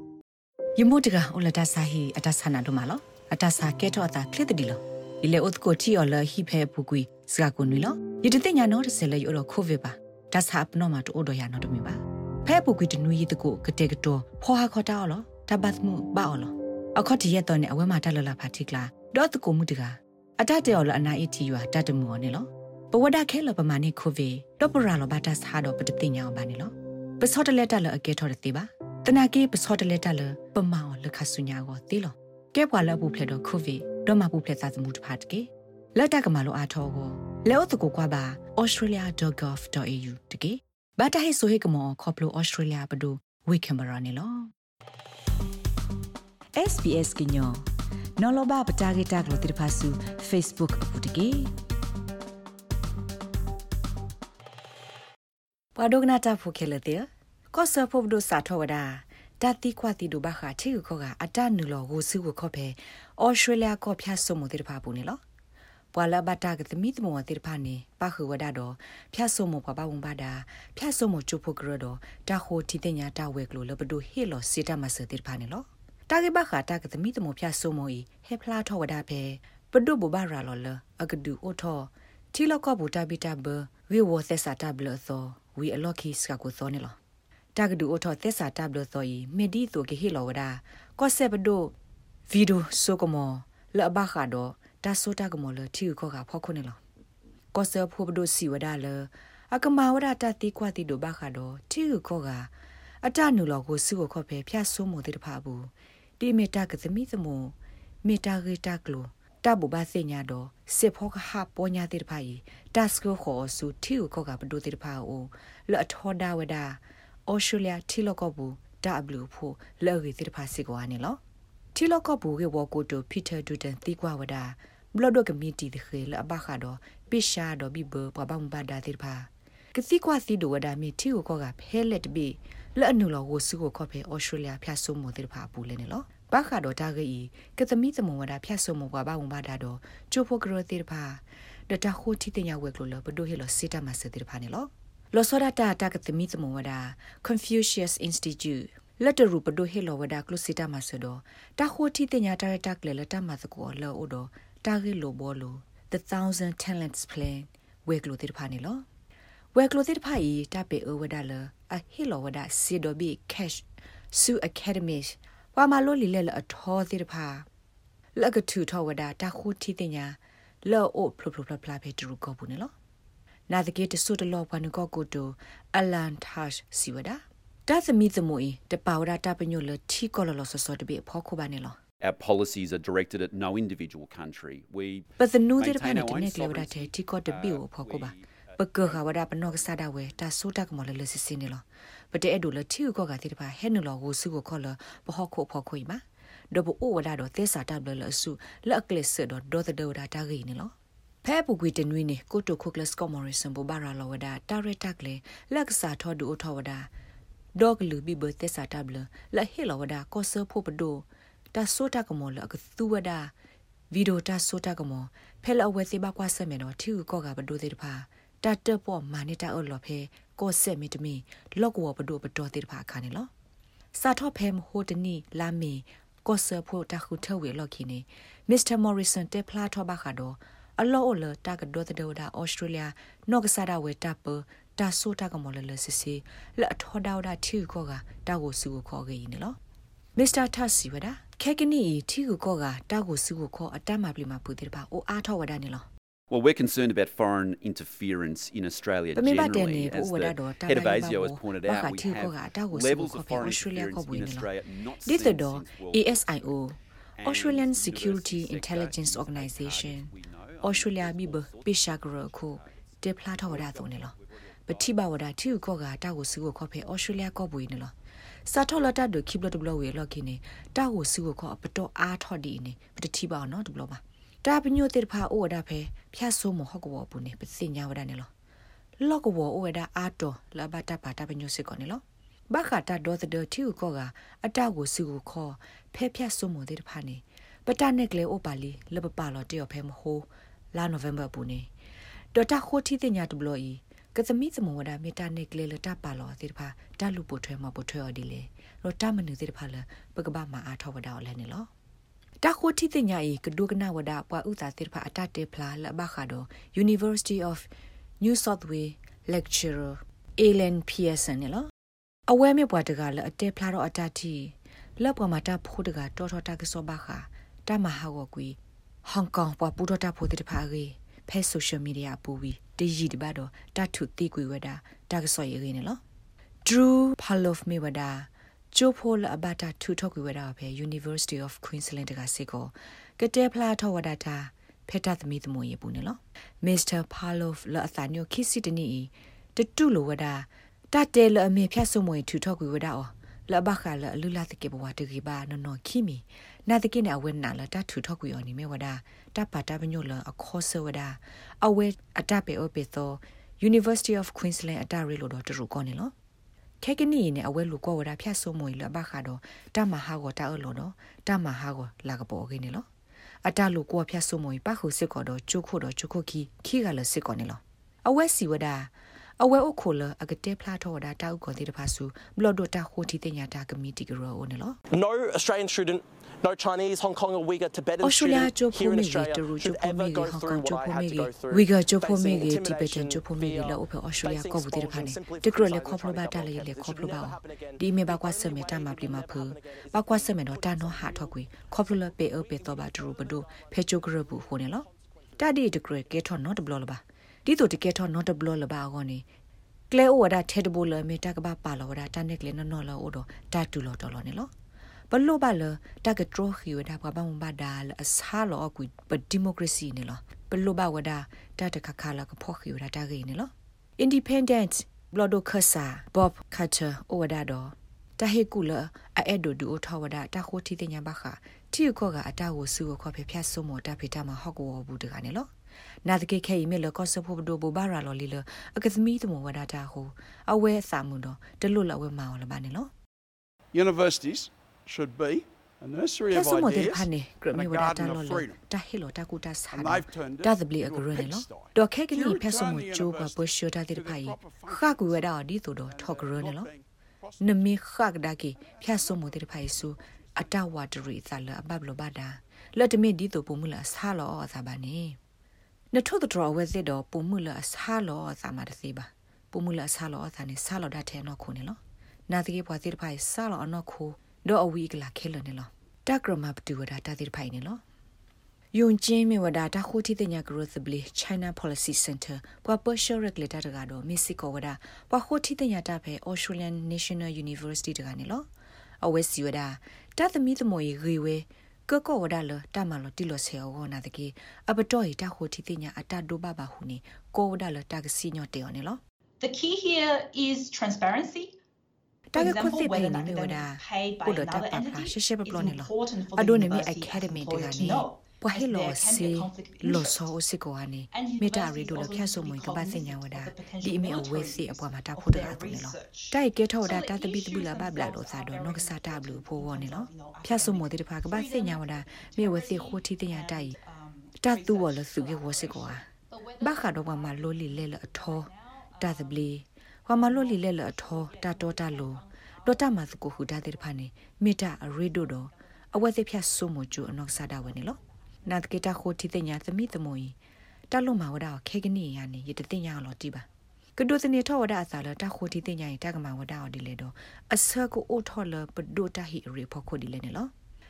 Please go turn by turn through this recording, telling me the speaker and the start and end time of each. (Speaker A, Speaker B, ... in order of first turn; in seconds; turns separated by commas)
Speaker A: 0.8-44.5, Speaker A: 46.6-47.6, Speaker A: 48.2-51.5, Speaker A: 55.8-65.2, Speaker A: 65.9-87.0, Speaker A: 87.5-91.7, Speaker A: 92.3-96.8, Speaker A: 97.5-102.5, Speaker A: 103.0-121.2, Speaker A: 121.8-158.8, Speaker A: 159.6-167.4, Speaker A: 168.2-172.7, Speaker A: 173.5-181.8, Speaker B: 182.0-190.2, Speaker A: 185.2-206.9, Speaker A: 207.6-213.3, Speaker A: 213.9-223.3, Speaker A: 223.9-239.6, Speaker A: 240.2-245.9, Speaker B: 246.3-256.6, Speaker A: 249.2-254.5, Speaker A: 255.1-264.1, Speaker B: 257.2-265.0, Speaker A: 264.7-267.9, Speaker A: 268.5-278.3, Speaker A: 279.0-291.7, Speaker A: 292.3-301.7, Speaker A: 302.4-307.7, Speaker A: 308.2-311.7, Speaker A: 312.3-326.0, Speaker A: 326.6-356.1, Speaker A: 356.8-362.9, Speaker A: 363.4-374.8, Speaker C: 374.9-395.6, Speaker A: 378.0-394.9, Speaker A: 395.4-399.2, Speaker A: 399.9-404.5, Speaker A: 405.1-425.5, Speaker A: 426.1-432.9, Speaker D: 433.7-438.6, Speaker A: 436.3-446.7, Speaker D: 439.7-445.3, Speaker D: 445.9-447.8, Speaker A: 447.4-455.2, Speaker D: 448.6-451.2, Speaker D: 452.4-452.7, Speaker A: 455.9-467.8, Speaker A: 468.7-478.5, Speaker A: 479.0-489.0, Speaker E: 489.4-491.6, Speaker A: 492.3-513.8, Speaker E: 492.3-500.3, Speaker E: 501.1-519.5, Speaker A: 514.4-516.1, Speaker A: 516.6-530.4, Speaker E: 520.1-528.0, Speaker A: 530.9-533.5, Speaker A: 534.0-540.5